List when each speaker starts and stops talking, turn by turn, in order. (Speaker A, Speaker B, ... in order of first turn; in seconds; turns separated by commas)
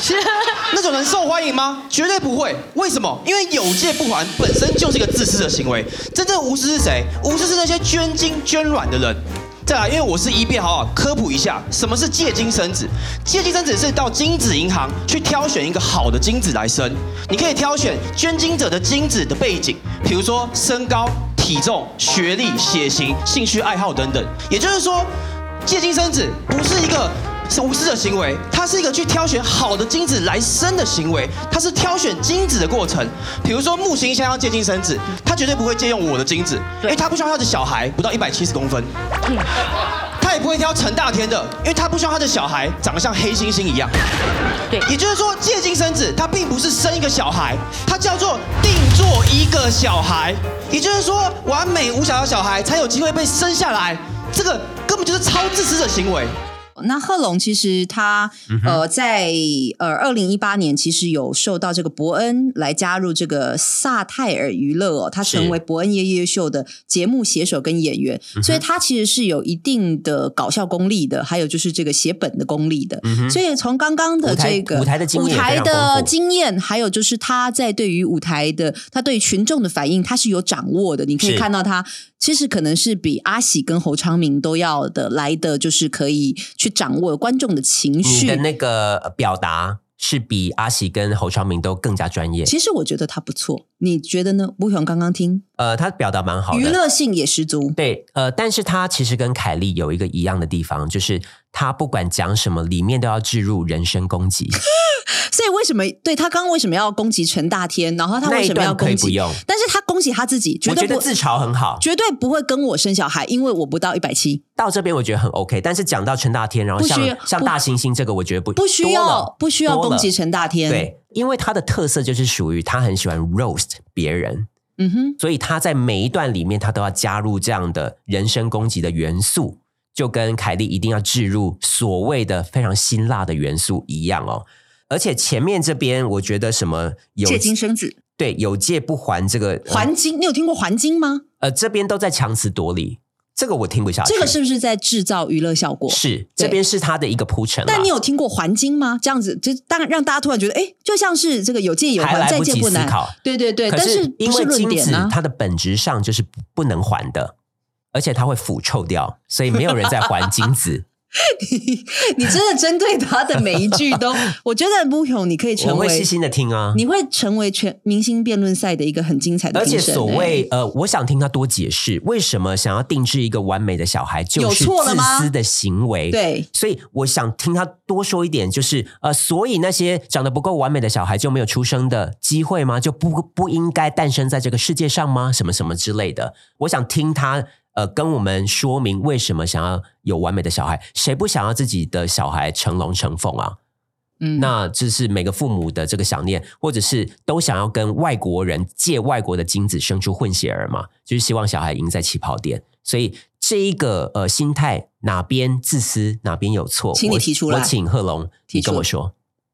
Speaker A: 0.6-25.1, Speaker A: 25.6-38.9, Speaker A: 40.2-43.9, Speaker A: 44.8-56.3, Speaker B: 56.8-88.4, Speaker C: 58.5-58.8, Speaker C: 65.2-65.6, Speaker C: 68.4-68.6, Speaker C: 73.0-73.4, Speaker C: 74.2-76.1, Speaker C: 81.2-81.5, Speaker C: 88.0-92.5, Speaker B: 92.5-95.4, Speaker C: 95.6-96.8, Speaker B: 96.5-97.8, Speaker C: 97.8-104.6, Speaker B: 105.3-111.1, Speaker C: 108.2-109.4, Speaker C: 110.7-111.8, Speaker B: 111.8-114.4, Speaker C: 114.6-120.1, Speaker B: 116.8-117.6, Speaker B: 118.6-120.9, Speaker C: 120.7-124.5, Speaker B: 124.8-125.2, Speaker C: 125.2-137.5, Speaker B: 137.2-138.0, Speaker C: 138.2-139.9, Speaker B: 139.7-141.2, Speaker C: 141.4-144.3, Speaker B: 144.0-146.6, Speaker C: 145.9-147.9, Speaker B: 147.7-155.2, Speaker C: 152.0-153.2, Speaker C: 153.7-157.3, Speaker C: 157.9-160.9, Speaker B: 161.2-166.1, Speaker C: 165.6-166.8, Speaker B: 166.7-170.4, Speaker C: 169.5-193.6, Speaker B: 174.4-175.3, Speaker B: 176.1-176.5, Speaker B: 194.2-194.5, Speaker C: 194.4-209.1, Speaker B: 206.9-207.7, Speaker B: 208.5-208.9